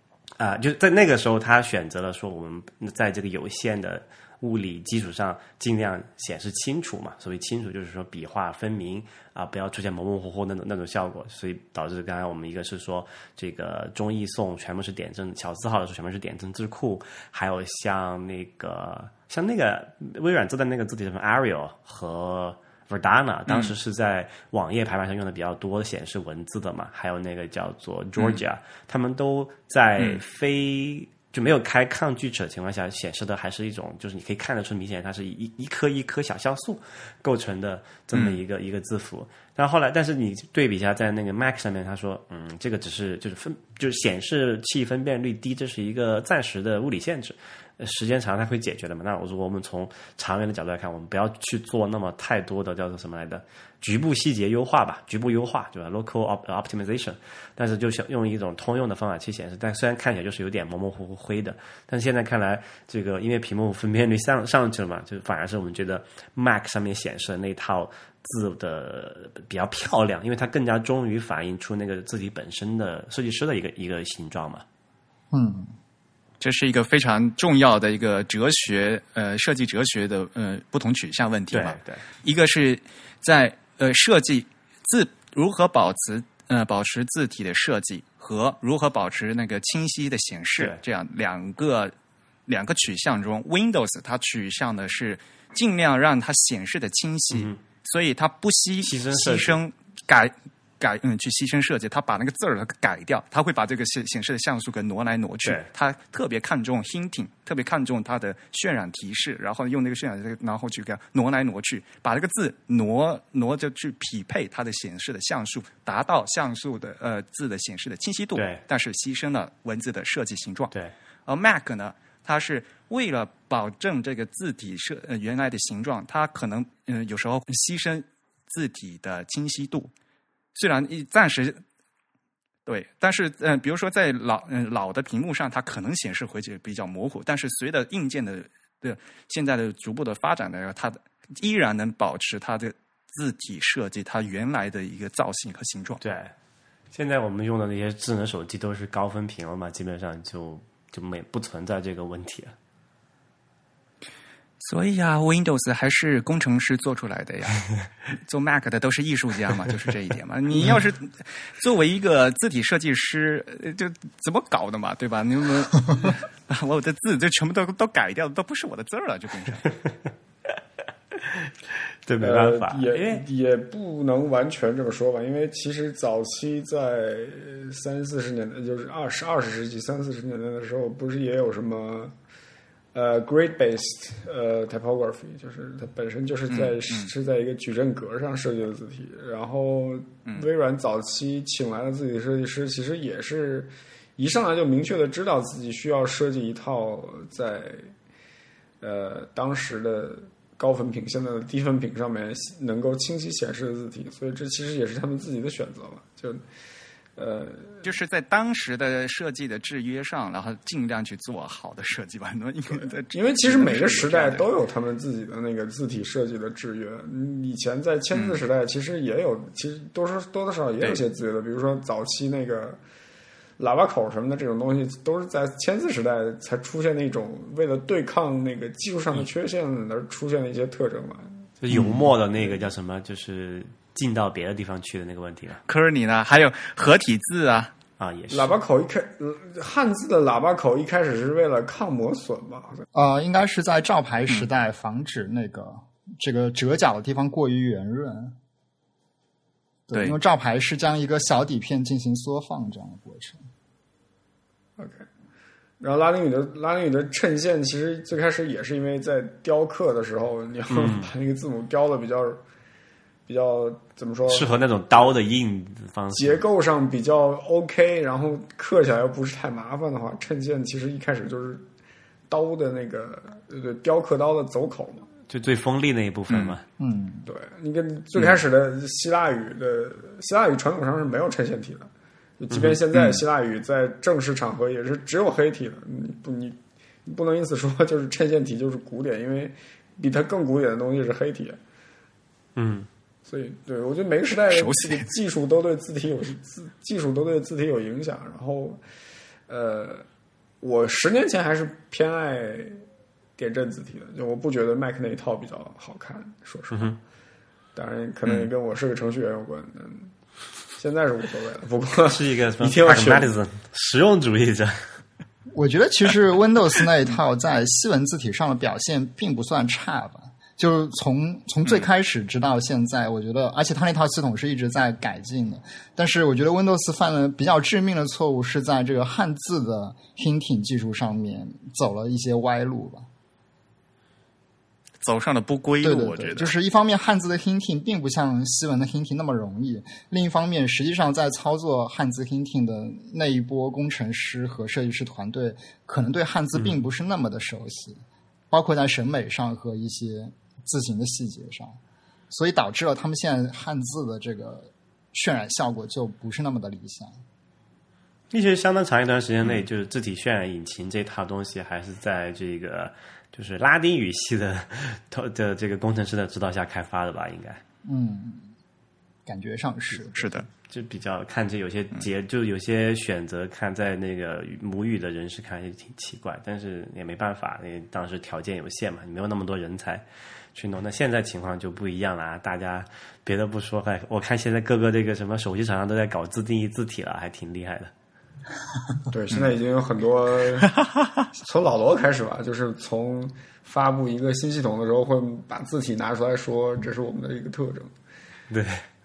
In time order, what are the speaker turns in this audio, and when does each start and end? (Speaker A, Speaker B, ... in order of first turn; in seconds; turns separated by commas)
Speaker A: 0.4-74.6, Speaker B: 23.5-23.7, Speaker B: 38.1-38.4, Speaker C: 75.3-75.7, Speaker B: 76.4-91.9, Speaker A: 81.5-82.0, Speaker B: 92.5-120.7, Speaker A: 97.3-97.6, Speaker A: 98.8-99.6, Speaker A: 118.3-118.6, Speaker B: 121.3-129.9, Speaker B: 130.6-131.6, Speaker B: 132.7-146.0, Speaker A: 146.0-146.3, Speaker A: 146.9-152.5, Speaker B: 154.6-169.7, Speaker A: 172.1-173.2, Speaker D: 172.2-182.2, Speaker D: 182.9-197.9, Speaker B: 186.5-187.1, Speaker D: 198.8-206.4, Speaker D: 207.2-207.8, Speaker B: 207.8-214.5, Speaker D: 213.1-222.8, Speaker B: 218.1-218.4, Speaker D: 223.6-232.5, Speaker A: 231.6-235.6, Speaker B: 235.7-237.7, Speaker A: 238.0-238.5, Speaker D: 238.3-242.8, Speaker C: 242.9-248.4, Speaker C: 249.9-253.4, Speaker B: 249.9-250.2, Speaker D: 254.8-255.1, Speaker D: 255.8-262.4, Speaker A: 260.7-261.1, Speaker D: 263.3-264.5, Speaker A: 264.3-266.4, Speaker D: 266.1-271.7, Speaker D: 272.3-275.1, Speaker A: 275.3-276.6, Speaker B: 276.3-276.6, Speaker C: 276.8-277.3, Speaker D: 277.3-291.6, Speaker A: 282.5-282.8, Speaker A: 292.6-292.9, Speaker D: 293.2-298.8, Speaker B: 294.5-295.1, Speaker D: 299.5-300.1, Speaker D: 300.6-302.8, Speaker D: 303.4-306.9, Speaker A: 306.7-307.0, Speaker D: 307.8-310.1, Speaker D: 310.8-313.4, Speaker A: 312.1-314.9, Speaker C: 315.5-333.1, Speaker B: 335.0-336.5, Speaker C: 335.8-348.0, Speaker C: 348.5-351.8, Speaker C: 352.3-357.1, Speaker A: 358.3-367.6, Speaker C: 367.9-368.5, Speaker C: 369.3-370.4, Speaker B: 370.1-370.5, Speaker A: 370.7-380.0, Speaker A: 380.6-387.9, Speaker D: 389.1-390.7, Speaker D: 391.3-397.9, Speaker A: 398.5-398.8